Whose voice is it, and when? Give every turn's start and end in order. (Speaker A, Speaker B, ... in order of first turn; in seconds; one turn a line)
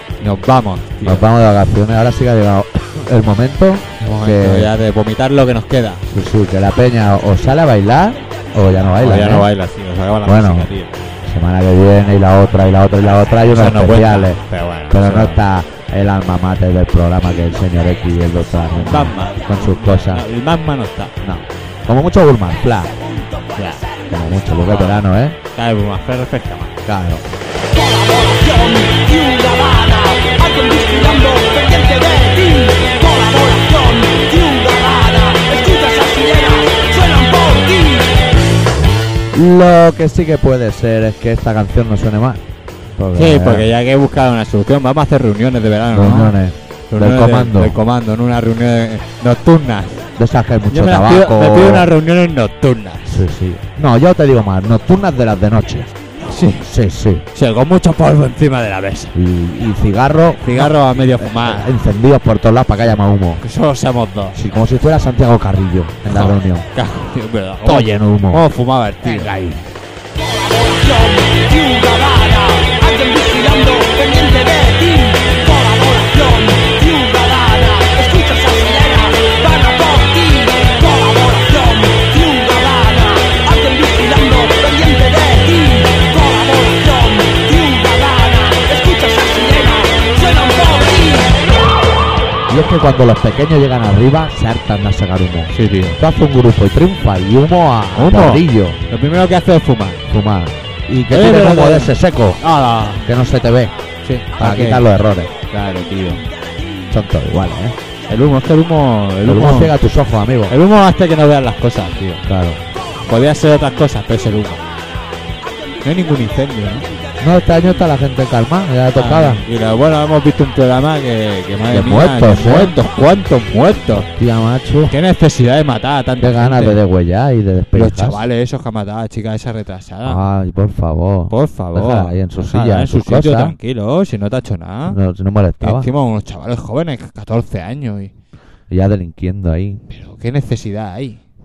Speaker A: 0.2-1.2
Speaker B: 1.0-4.7
Speaker A: 4.0-6.0
Speaker B: 6.1-9.5
Speaker A: 9.0-11.0
Speaker B: 10.2-10.7
Speaker B: 11.2-20.2
Speaker A: 13.5-15.4
Speaker A: 18.7-21.1
Speaker B: 21.2-22.9
Speaker A: 23.5-23.9
Speaker B: 24.1-25.4
Speaker A: 24.7-26.8
Speaker B: 26.9-27.2
Speaker C: 27.7-38.1
Speaker B: 39.3-42.4
Speaker B: 43.0-43.6
Speaker A: 43.1-46.4
Speaker B: 45.9-47.8
Speaker A: 46.9-50.0
Speaker B: 50.2-51.9
Speaker A: 50.7-53.2
Speaker B: 53.1-55.9
Speaker A: 56.2-56.7
Speaker B: 56.5-57.2
Speaker A: 57.3-59.1
Speaker B: 59.1-63.4
Speaker A: 60.4-61.7
Speaker A: 63.4-64.4
Speaker B: 64.3-66.7
Speaker A: 66.1-69.3
Speaker B: 67.6-68.4
Speaker B: 69.0-69.6
Speaker C: 70.1-91.4
Speaker B: 92.5-98.8
Speaker A: 95.5-96.0
Speaker A: 97.9-100.0
Speaker B: 100.1-102.4
Speaker A: 101.1-103.0
Speaker B: 103.0-103.7
Speaker A: 104.0-104.8
Speaker B: 104.4-105.3
Speaker A: 105.5-106.2
Speaker B: 106.9-107.8
Speaker A: 108.1-109.8
Speaker B: 109.2-110.5
Speaker A: 110.5-112.2
Speaker B: 112.2-112.6
Speaker A: 113.0-114.6
Speaker A: 115.8-116.9
Speaker B: 117.2-119.4
Speaker A: 118.9-124.1
Speaker B: 121.7-122.7
Speaker B: 124.0-124.9
Speaker A: 124.9-126.8
Speaker B: 126.2-128.2
Speaker A: 127.7-130.2
Speaker B: 130.0-133.6
Speaker A: 131.3-135.0
Speaker B: 134.9-135.9
Speaker A: 135.6-138.1
Speaker B: 138.7-139.8
Speaker A: 139.9-141.2